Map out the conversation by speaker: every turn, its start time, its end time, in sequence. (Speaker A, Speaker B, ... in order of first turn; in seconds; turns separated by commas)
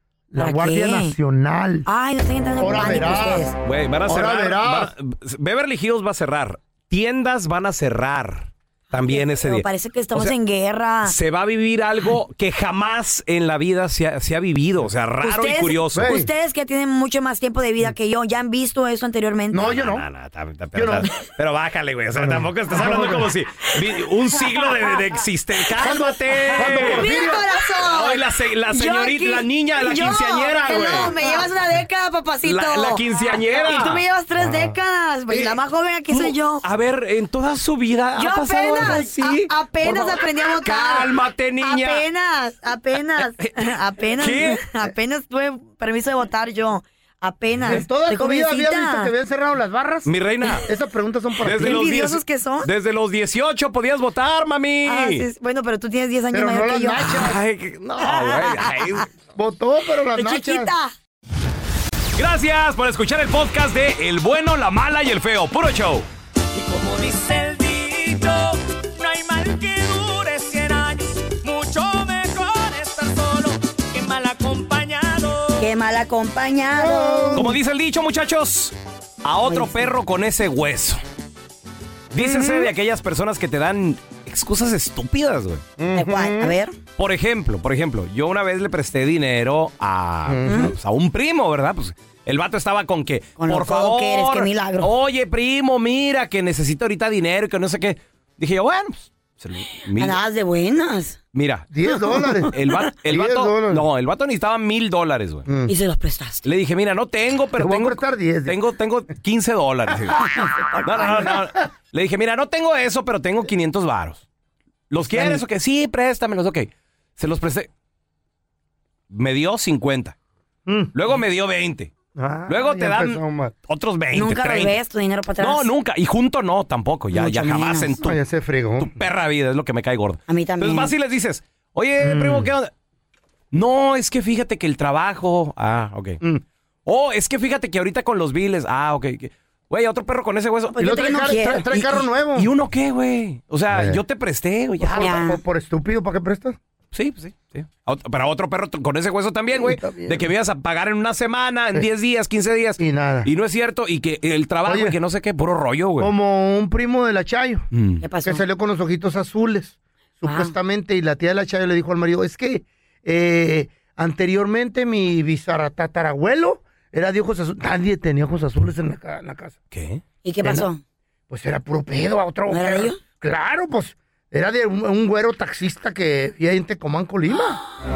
Speaker A: 0.3-1.9, Speaker B: 0.4-1.1, Speaker B: 1.9-3.6, Speaker A: 2.6-3.5, Speaker C: 3.6-10.4, Speaker A: 4.1-4.9, Speaker B: 8.9-11.2, Speaker C: 11.0-16.1, Speaker B: 15.2-19.8, Speaker A: 15.9-16.3, Speaker A: 19.5-20.1, Speaker C: 19.7-27.2, Speaker A: 20.8-21.1, Speaker A: 22.1-23.3, Speaker A: 25.8-27.5, Speaker B: 26.6-36.6, Speaker C: 27.8-31.1, Speaker A: 30.9-31.4, Speaker C: 32.4-34.0, Speaker A: 34.4-34.8, Speaker C: 36.1-42.1, Speaker B: 38.2-49.1, Speaker C: 43.2-44.6, Speaker A: 47.6-50.1, Speaker C: 50.1-50.7, Speaker A: 50.6-51.9, Speaker C: 51.4-55.3, Speaker B: 51.5-52.7, Speaker B: 54.9-57.2, Speaker A: 56.3-57.4, Speaker C: 57.0-59.1, Speaker B: 58.0-59.0, Speaker A: 59.4-60.7, Speaker B: 60.1-60.9, Speaker C: 62.2-66.0, Speaker D: 66.6-75.7, Speaker B: 75.6-77.4, Speaker A: 76.7-77.6, Speaker C: 77.3-81.0, Speaker B: 79.5-79.9, Speaker C: 82.1-85.6, Speaker A: 82.2-82.7, Speaker A: 85.8-86.5, Speaker B: 85.9-86.8, Speaker C: 87.0-100.2, Speaker A: 90.3-90.7, Speaker B: 90.5-90.7, Speaker B: 93.4-94.9, Speaker B: 100.0-101.2, Speaker C: 101.3-101.7, Speaker A: 101.7-102.5, Speaker C: 102.5-105.5, Speaker A: 103.0-103.8, Speaker A: 105.5-105.7, Speaker B: 105.7-106.5, Speaker C: 106.4-114.2, Speaker A: 107.6-108.6, Speaker A: 110.4-111.4, Speaker C: 114.9-117.7, Speaker A: 115.1-115.4, Speaker C: 119.1-120.2, Speaker A: 120.7-120.9, Speaker C: 120.9-121.9, Speaker A: 122.2-123.5, Speaker C: 122.5-124.8, Speaker B: 124.1-125.7, Speaker C: 125.4-128.2, Speaker B: 127.1-128.0, Speaker A: 128.0-129.0, Speaker C: 128.8-132.7, Speaker B: 130.3-130.9, Speaker A: 132.0-132.5, Speaker C: 133.5-136.2, Speaker C: 136.9-140.8, Speaker B: 140.7-141.9, Speaker A: 140.8-142.5, Speaker C: 142.3-145.2, Speaker A: 143.7-144.0, Speaker A: 144.8-146.6, Speaker B: 145.0-145.4, Speaker C: 146.9-156.1, Speaker A: 149.5-150.3, Speaker A: 152.8-153.3, Speaker A: 154.7-155.0, Speaker A: 156.0-157.7, Speaker C: 157.7-158.0, Speaker B: 158.0-158.4, Speaker A: 158.2-169.6, Speaker B: 160.2-160.5, Speaker C: 169.7-170.0, Speaker B: 170.2-170.8, Speaker A: 170.4-170.7, Speaker A: 171.3-177.6, Speaker B: 172.5-173.0